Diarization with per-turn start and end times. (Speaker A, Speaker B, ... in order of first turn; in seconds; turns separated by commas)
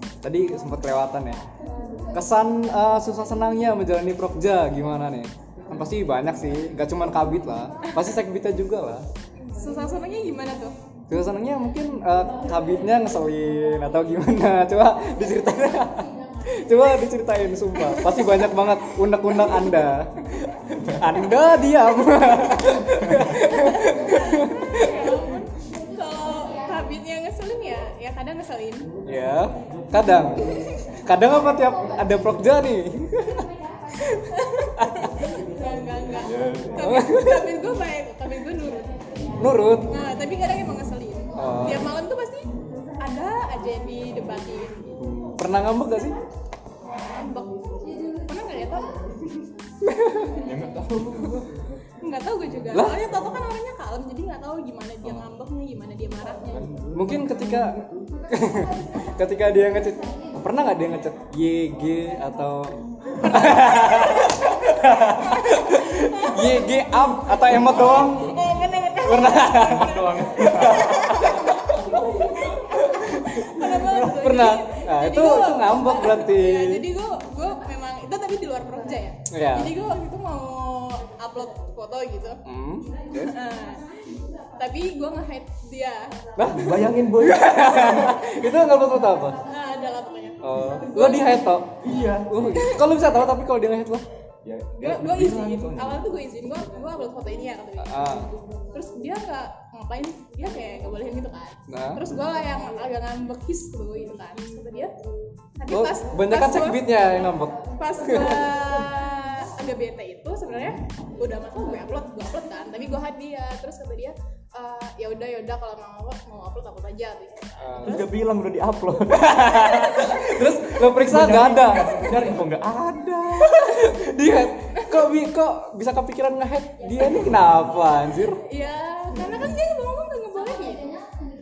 Speaker A: 0.2-1.4, Speaker A: 2.1-9.1, Speaker B: 9.5-10.7, Speaker A: 11.1-25.2, Speaker B: 17.8-18.4, Speaker B: 23.3-28.9, Speaker A: 29.1-35.4, Speaker B: 34.1-38.9, Speaker C: 36.2-36.9, Speaker A: 36.8-37.5, Speaker A: 39.4-39.9, Speaker B: 39.9-44.9, Speaker A: 41.4-41.9, Speaker A: 45.0-46.2, Speaker B: 47.0-49.5, Speaker A: 49.8-50.4, Speaker C: 50.4-51.5, Speaker B: 52.0-56.7, Speaker A: 52.7-53.0, Speaker C: 56.5-58.1, Speaker A: 56.9-68.4, Speaker B: 63.1-82.4, Speaker A: 69.0-76.9, Speaker C: 69.8-71.2, Speaker A: 79.3-79.8, Speaker A: 82.5-83.3, Speaker B: 83.1-83.9, Speaker B: 84.6-86.1, Speaker A: 86.4-89.4, Speaker C: 86.5-87.5, Speaker B: 87.5-88.4, Speaker B: 89.4-91.5, Speaker A: 90.4-91.8, Speaker C: 91.8-92.4, Speaker A: 92.3-94.0, Speaker B: 92.5-92.9, Speaker C: 94.4-96.0, Speaker B: 94.8-104.9, Speaker A: 97.8-98.3, Speaker A: 101.7-102.0, Speaker B: 105.6-106.8, Speaker A: 105.7-108.5, Speaker B: 107.8-118.1, Speaker A: 117.6-118.0, Speaker C: 117.8-119.7, Speaker A: 119.1-122.2, Speaker B: 119.4-120.8, Speaker C: 120.6-124.2, Speaker B: 121.7-122.3, Speaker A: 123.4-128.4, Speaker B: 124.7-125.1, Speaker B: 128.4-131.0